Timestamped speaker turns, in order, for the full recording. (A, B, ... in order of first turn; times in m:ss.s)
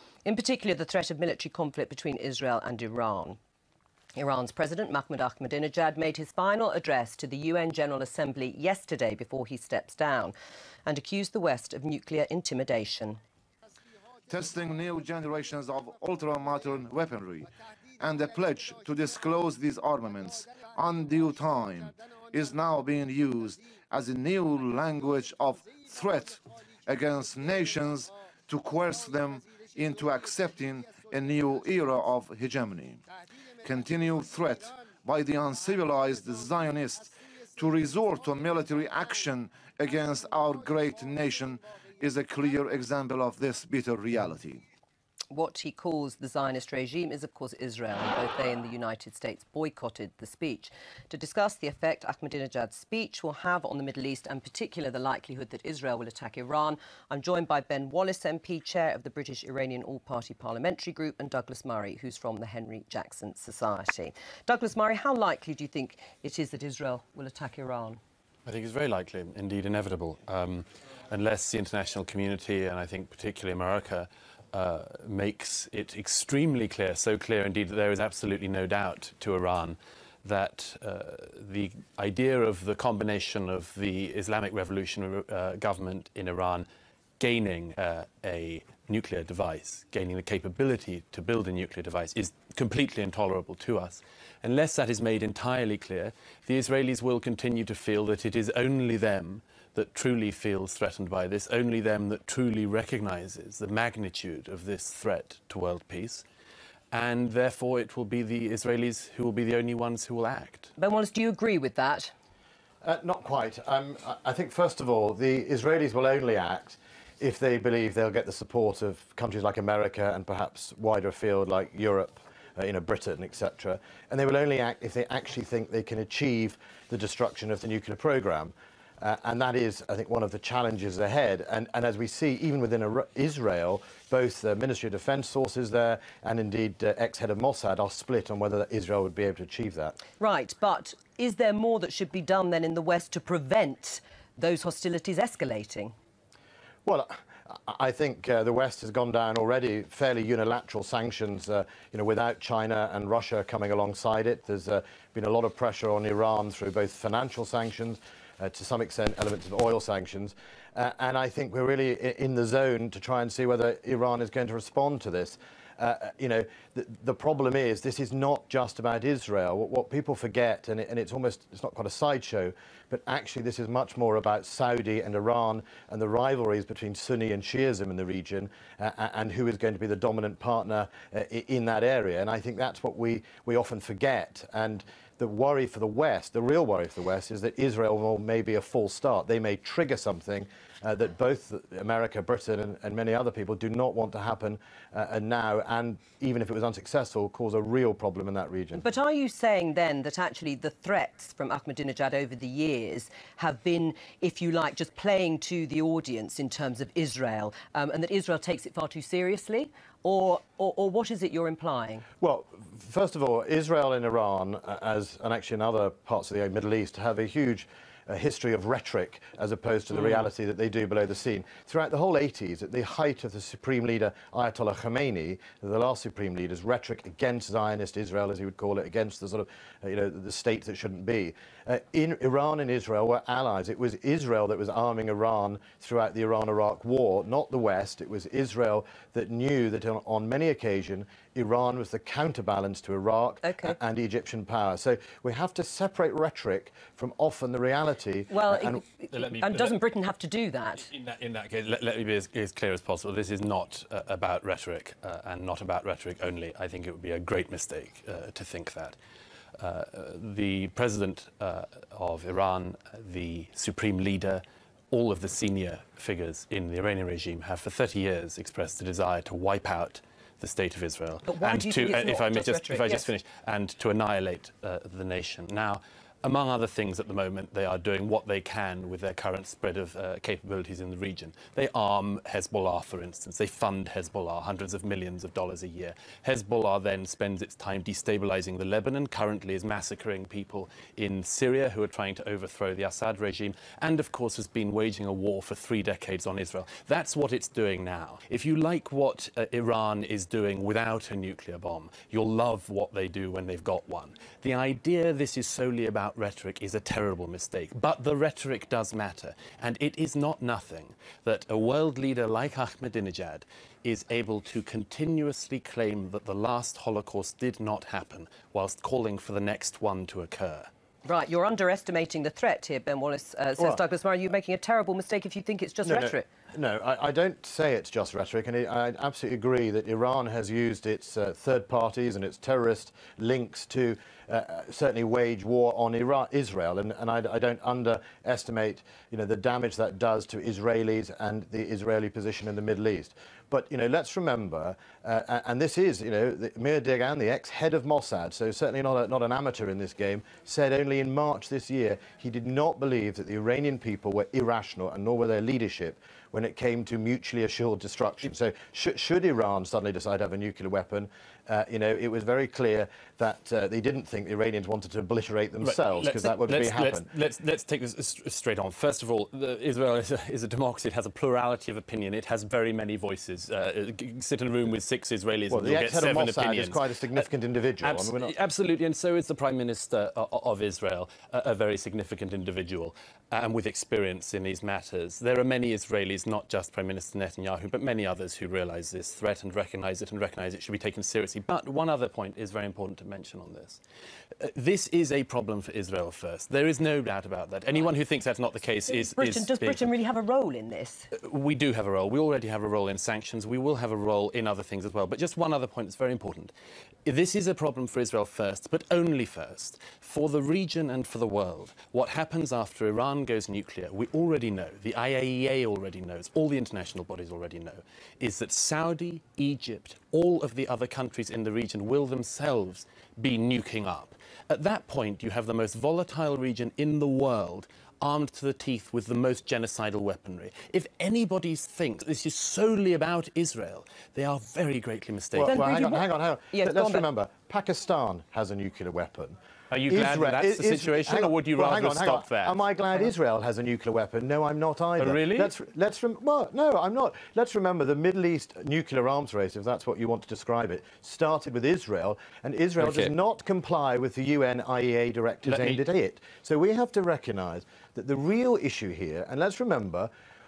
0:00.2-0:03.4 A
0:04.2-0:10.4 A
0:10.9-0:13.2 A
0:14.3-0:17.5 B
0:18.0-0:33.0 B
0:33.6-0:44.6 B
0:45.3-1:08.0 A
1:08.4-1:26.7 C
1:27.2-1:46.2 C
1:46.9-1:50.7 C
1:50.8-1:52.1 A
1:52.8-2:20.0 D
2:20.2-2:26.0 A
2:26.8-3:18.9 D
3:18.8-3:32.0 A
3:32.2-4:08.8 D
4:03.4-4:03.8 A
4:08.3-4:10.9 A
4:09.1-4:09.8 C
4:10.8-4:19.0 C
4:19.6-5:20.7 C
4:31.3-4:33.0 A
5:21.0-5:26.2 A
5:25.8-6:07.1 D
6:05.6-6:17.3 C
6:15.5-6:18.3 D
6:17.8-6:33.8 C
6:34.4-6:39.9 C
6:38.9-6:41.1 A
6:41.1-6:46.5 C
6:47.0-7:15.6 C
7:15.3-7:19.4 D
7:15.4-7:17.1 A
7:19.7-7:22.6 C
7:19.9-7:40.1 D
7:25.0-7:25.5 C
7:32.8-7:33.1 C
7:35.4-7:35.8 C